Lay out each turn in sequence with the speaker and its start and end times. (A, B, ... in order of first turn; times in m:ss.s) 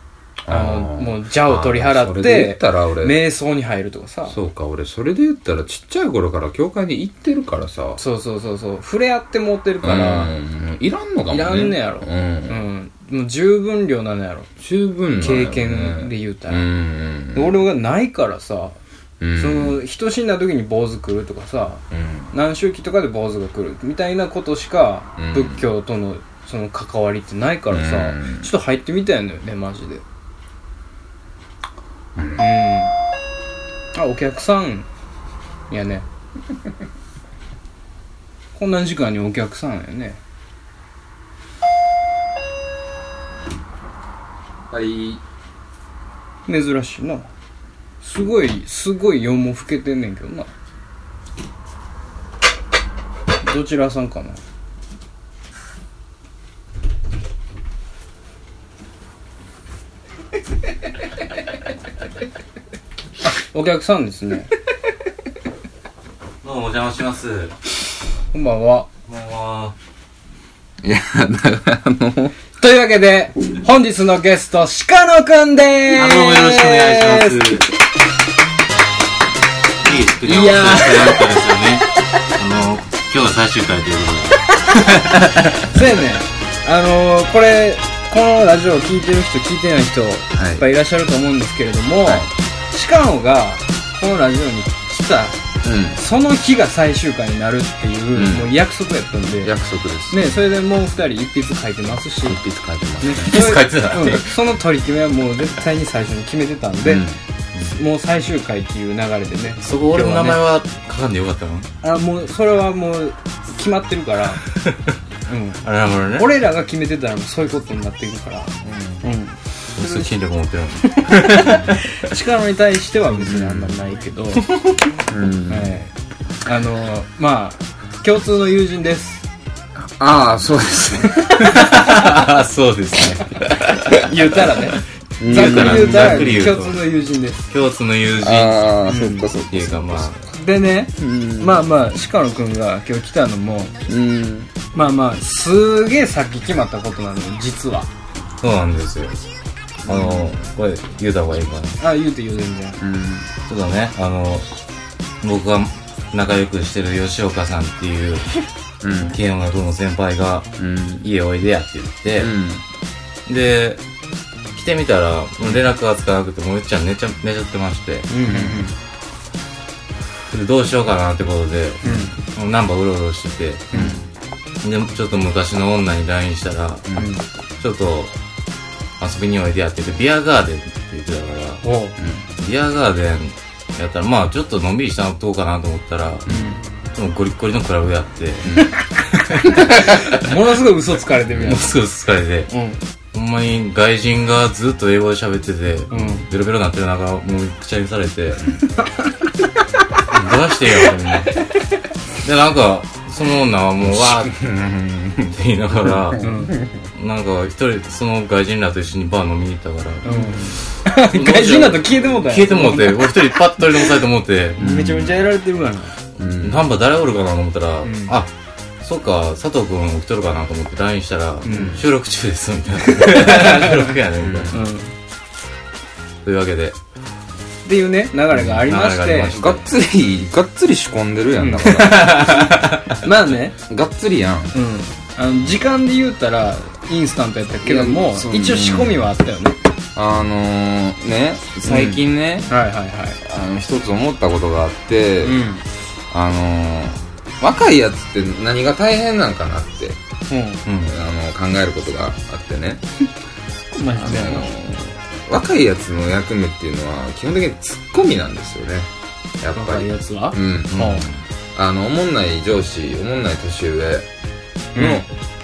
0:00.4-0:03.2 A
0:00.5-0:04.4 B
0:04.3-0:08.0 A
0:08.0-0:10.3 B
0:09.8-0:12.6 A
0:11.3-0:14.5 B
0:14.6-0:17.6 A
0:15.2-0:16.7 B
0:17.3-0:18.8 B
0:19.2-0:19.8 A
0:19.4-0:30.0 B
0:21.9-0:22.3 A
0:25.2-0:25.6 A
0:27.7-0:28.5 A
0:32.2-0:32.4 A
0:32.4-0:32.9 B
0:33.9-0:34.9 B
0:35.7-0:36.0 B
0:38.5-0:40.2 B
0:44.7-0:45.2 A
0:46.5-0:47.3 B
0:48.0-0:50.5 B
0:53.4-0:54.4 B
1:03.5-1:04.5 B
1:06.4-1:07.5 C
1:08.3-1:08.9 B
1:09.1-1:09.7 C
1:10.8-1:12.3 A
1:12.6-1:17.6 B
1:15.9-1:17.7 C
1:19.8-1:25.6 C
1:20.2-1:20.8 A
1:20.2-1:21.2 B
1:25.7-1:35.4 B
1:30.3-1:30.6 A
1:32.0-1:32.3 A
1:35.6-1:36.0 A
1:35.9-1:39.5 B
1:38.1-1:38.6 A
1:39.4-1:40.4 A
1:40.1-1:42.4 B
1:42.2-1:43.4 A
1:43.0-1:47.0 B
1:43.2-1:44.3 C
1:46.8-1:47.2 A
1:47.6-1:50.4 B
1:49.6-1:51.7 C
1:51.8-1:54.4 B
1:54.6-1:54.8 C
1:55.3-1:55.6 B
1:55.6-1:56.3 C
1:56.1-2:00.1 B
1:58.6-1:59.0 A
1:59.7-2:01.7 C
2:00.8-2:04.5 B
2:03.2-2:03.7 A
2:05.1-2:05.8 A
2:05.5-2:05.9 B
2:06.4-2:09.2 B
2:09.8-2:11.6 A
2:11.4-2:12.1 B
2:11.5-2:14.1 C
2:14.0-2:17.5 B
2:15.2-2:16.5 A
2:15.2-2:16.8 C
2:17.5-2:18.9 C
2:18.2-2:20.2 A
2:18.9-2:19.3 B
2:19.5-2:20.2 C
2:20.3-2:23.7 B
2:21.0-2:21.7 A
2:23.9-2:24.5 A
2:24.7-2:27.9 B
2:28.4-2:29.2 C
2:29.8-2:30.4 A
2:29.8-2:31.8 C
2:31.8-2:32.8 B
2:32.8-2:33.3 A
2:33.5-2:34.4 C
2:35.2-2:38.4 C
2:38.8-2:39.2 A
2:39.1-2:42.3 C
2:40.6-2:41.1 A
2:42.2-2:42.6 A
2:43.2-2:43.8 C
2:44.5-2:48.1 C
2:48.1-2:48.7 B
2:48.2-2:48.7 A
2:50.3-2:53.9 C
2:51.8-2:52.1 B
2:53.7-2:54.0 A
2:54.6-2:56.8 C
2:56.9-2:57.2 B
2:57.6-2:58.1 C
2:59.0-3:01.6 C
3:01.6-3:02.0 B
3:02.0-3:02.3 A
3:02.4-3:06.3 C
3:06.2-3:06.6 A
3:06.3-3:06.6 B
3:06.9-3:08.5 C
3:08.4-3:08.7 A
3:08.6-3:08.9 B
3:09.3-3:10.2 C
3:09.9-3:11.8 B
3:11.4-3:12.5 C
3:12.5-3:12.8 B
3:13.1-3:18.4 C
3:15.9-3:16.3 B
3:20.1-3:21.4 C
3:22.2-3:24.3 C
3:23.8-3:26.8 A
3:25.3-3:26.3 C
3:26.2-3:26.5 B
3:26.9-3:34.7 C
3:30.0-3:33.9 B
3:34.6-3:35.2 A
3:34.6-3:36.0 B
3:36.2-3:36.7 A
3:36.4-3:38.3 C
3:37.8-3:38.2 B
3:38.8-3:44.6 C
3:41.4-3:41.8 B
3:41.4-3:41.8 A
3:43.0-3:43.8 B
3:44.2-3:44.6 A
3:44.5-3:44.9 B
3:46.2-3:46.8 C
3:47.6-3:49.4 B
3:48.3-3:49.7 C
3:49.3-3:52.3 A
3:51.4-3:53.6 B
3:51.8-3:53.0 C
3:53.6-3:54.5 A
3:54.5-3:59.6 B
3:57.6-3:59.1 A
4:00.0-4:02.5 A
4:01.6-4:03.2 B
4:03.2-4:05.4 A
4:05.2-4:05.6 B
4:06.1-4:10.0 A
4:10.3-4:10.6 B
4:10.6-4:11.0 C
4:10.8-4:12.8 A
4:13.7-4:14.5 B
4:13.9-4:18.9 A
4:19.4-4:20.7 A
4:19.5-4:21.1 B
4:20.7-4:21.2 C
4:21.5-4:24.1 A
4:24.7-4:25.0 B
4:24.7-4:25.1 A